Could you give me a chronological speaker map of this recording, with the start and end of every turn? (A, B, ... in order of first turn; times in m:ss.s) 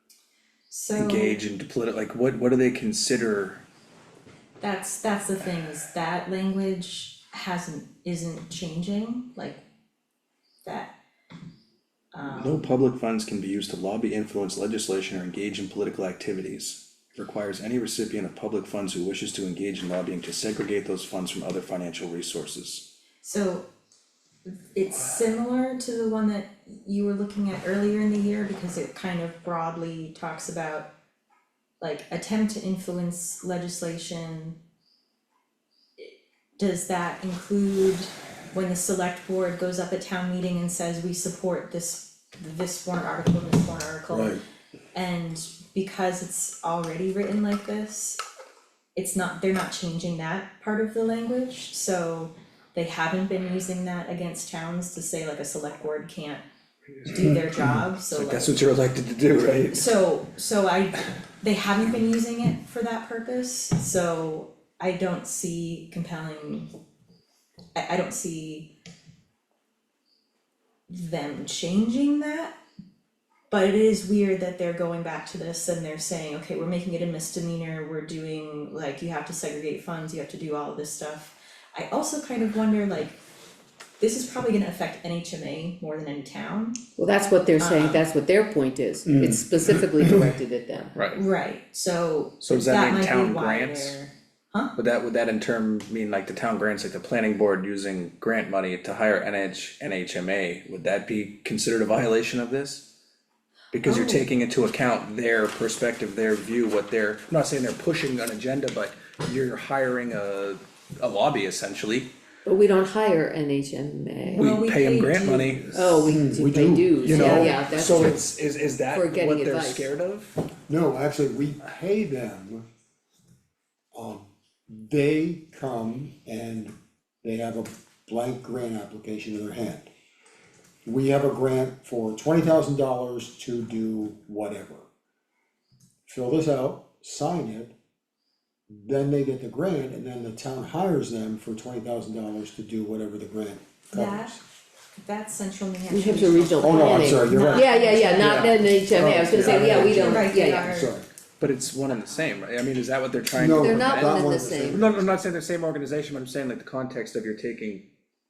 0:00.7-0:01.4 A
0:01.0-0:03.6 B
0:04.6-0:09.6 A
0:10.6-0:11.0 A
0:12.1-0:12.7 A
0:12.2-0:22.8 B
0:23.2-0:23.7 A
0:24.5-0:30.9 A
0:31.8-0:34.6 A
0:36.0-0:44.4 A
0:44.1-0:44.4 C
0:44.9-0:48.2 A
0:48.9-0:56.4 A
0:57.0-0:58.6 A
0:58.1-0:59.9 B
0:59.7-1:06.7 A
1:07.8-1:08.7 A
1:10.9-1:12.6 A
1:13.5-1:23.2 A
1:24.0-1:26.8 A
1:27.0-1:31.0 D
1:27.6-1:28.0 A
1:29.0-1:30.3 C
1:31.1-1:34.7 A
1:32.4-1:34.0 B
1:34.8-1:42.8 B
1:43.7-1:52.1 B
1:43.8-1:44.2 A
1:52.4-1:54.5 D
1:54.3-1:55.8 B
1:54.4-1:56.0 A
1:55.7-1:58.2 D
1:56.1-1:57.6 C
1:57.0-2:00.3 B
1:58.9-1:59.9 D
2:00.7-2:02.6 C
2:03.9-2:09.9 C
2:10.8-2:14.8 C
2:16.1-2:17.7 C
2:18.7-2:24.4 C
2:23.9-2:24.4 A
2:25.0-2:28.7 A
2:25.9-2:30.7 D
2:26.6-2:31.0 C
2:28.2-2:28.5 B
2:29.3-2:29.8 B
2:29.8-2:30.9 A
2:31.4-2:37.8 B
2:32.0-2:32.4 A
2:33.3-2:35.1 C
2:33.6-2:34.8 D